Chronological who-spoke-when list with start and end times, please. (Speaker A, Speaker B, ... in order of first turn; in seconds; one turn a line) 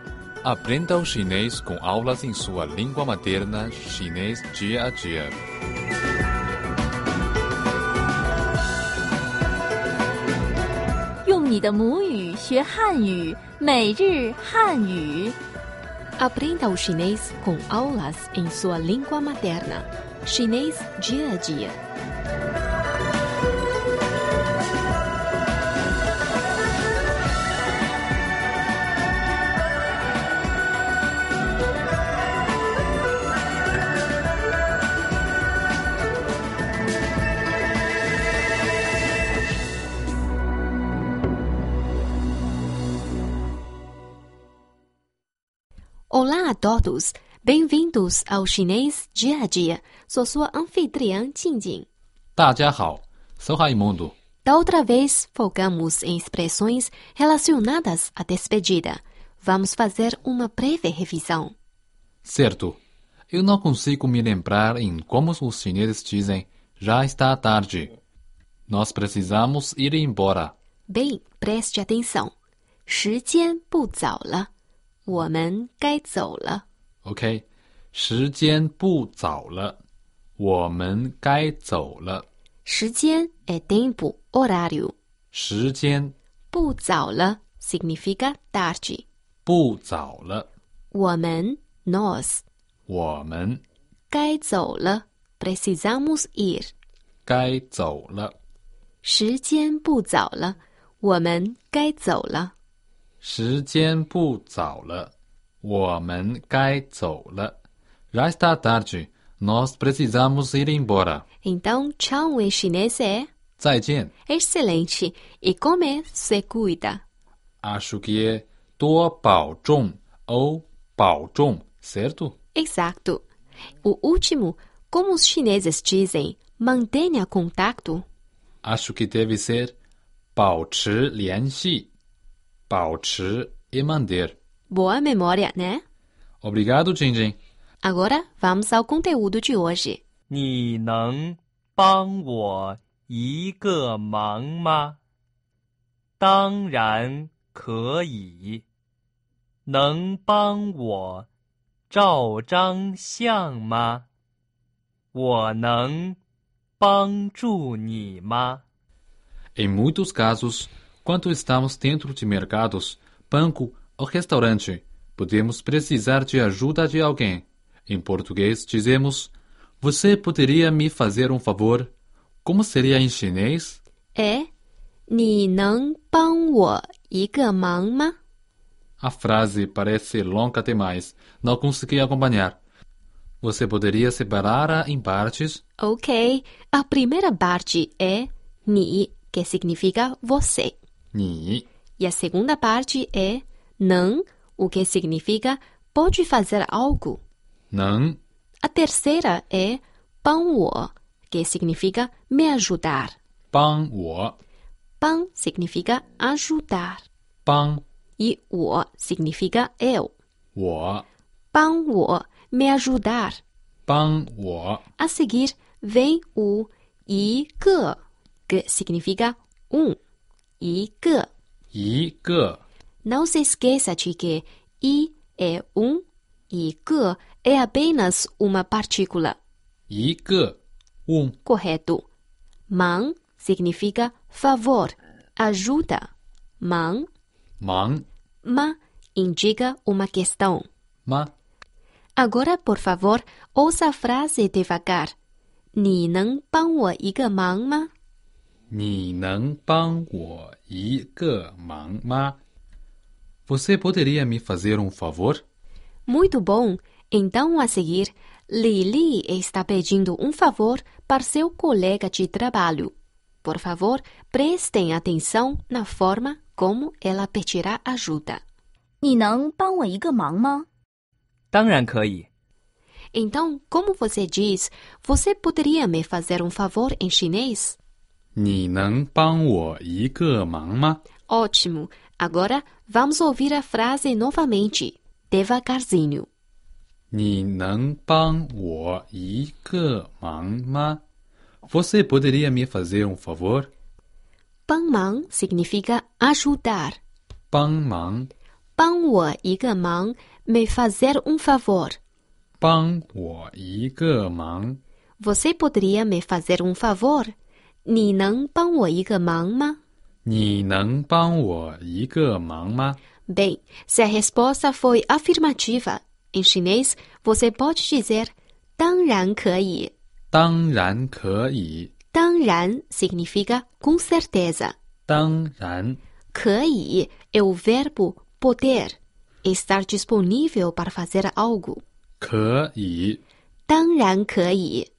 Speaker A: 0.4-5.4
Speaker B: 11.2-15.4
Speaker C: 16.2-21.8
Speaker C: 46.1-51.9
Speaker A: 52.4-54.1
Speaker C: 54.4-61.5
Speaker A: 62.2-68.0
Speaker A: 68.7-70.5
Speaker C: 70.9-72.3
Speaker C: 72.9-74.5
Speaker C: 75.1-76.6
Speaker A: 77.0-79.8
Speaker A: 80.4-82.2
Speaker C: 82.7-85.0
Speaker A: 85.3-86.1
Speaker C: 86.5-89.0
Speaker A: 89.5-90.5
Speaker C: 90.9-92.4
Speaker A: 92.9-93.6
Speaker C: 94.1-96.7
Speaker A: 97.3-98.3
Speaker C: 99.0-102.5
Speaker A: 103.2-105.1
Speaker A: 105.6-107.6
Speaker A: 108.1-111.2
Speaker C: 111.4-113.3
Speaker A: 113.6-114.1
Speaker C: 114.3-117.0
Speaker A: 117.6-122.3
Speaker C: 122.5-123.2
Speaker C: 123.8-128.1
Speaker A: 128.6-129.8
Speaker A: 130.3-131.9
Speaker A: 132.7-134.4
Speaker C: 134.7-135.8
Speaker A: 136.4-137.4
Speaker C: 137.8-140.0
Speaker D: 140.3-145.0
Speaker D: 146.2-148.6
Speaker D: 149.7-151.3
Speaker D: 151.9-154.1
Speaker D: 155.1-156.2
Speaker D: 156.8-158.6
Speaker A: 159.6-171.9
Speaker A: 172.4-173.8
Speaker C: 174.2-174.5
Speaker C: 175.1-178.2
Speaker A: 179.0-182.6
Speaker A: 183.4-185.6
Speaker C: 185.8-190.8
Speaker A: 191.1-191.7
Speaker C: 192.0-197.2
Speaker A: 197.7-198.2
Speaker C: 198.6-203.2
Speaker A: 203.5-204.4
Speaker C: 205.0-207.1
Speaker A: 207.5-207.8
Speaker C: 208.2-210.1
Speaker A: 210.6-211.1
Speaker C: 211.5-213.4
Speaker A: 213.9-214.8
Speaker C: 215.0-220.0
Speaker C: 220.6-221.3
Speaker A: 221.7-222.6
Speaker C: 223.0-229.4
Speaker A: 229.9-231.4
Speaker C: 231.4-232.1
Speaker C: 232.7-236.1
Speaker C: 236.6-237.1
Speaker A: 237.6-238.1
Speaker C: 238.4-240.7
Speaker A: 241.1-241.3
Speaker C: 242.2-245.2
Speaker C: 245.8-247.9
Speaker A: 248.7-252.4
Speaker A: 253.5-255.4
Speaker C: 256.1-268.4
Speaker B: 269.0-270.7
Speaker D: 271.5-272.3
Speaker C: 273.1-277.8
Speaker A: 278.4-281.0
Speaker C: 281.3-286.3
Speaker A: 287.1-291.0
Speaker A: 291.7-293.7
Speaker C: 294.7-297.0
Speaker A: 297.5-298.3
Speaker C: 298.8-302.0
Speaker A: 302.6-304.8
Speaker C: 305.2-307.3
Speaker C: 307.9-309.8
Speaker A: 310.2-313.0
Speaker C: 313.3-319.9
Speaker A: 320.3-321.9
Speaker C: 322.1-324.8
Speaker A: 325.1-326.0
Speaker C: 326.3-331.8
Speaker A: 332.2-333.2
Speaker C: 333.7-334.9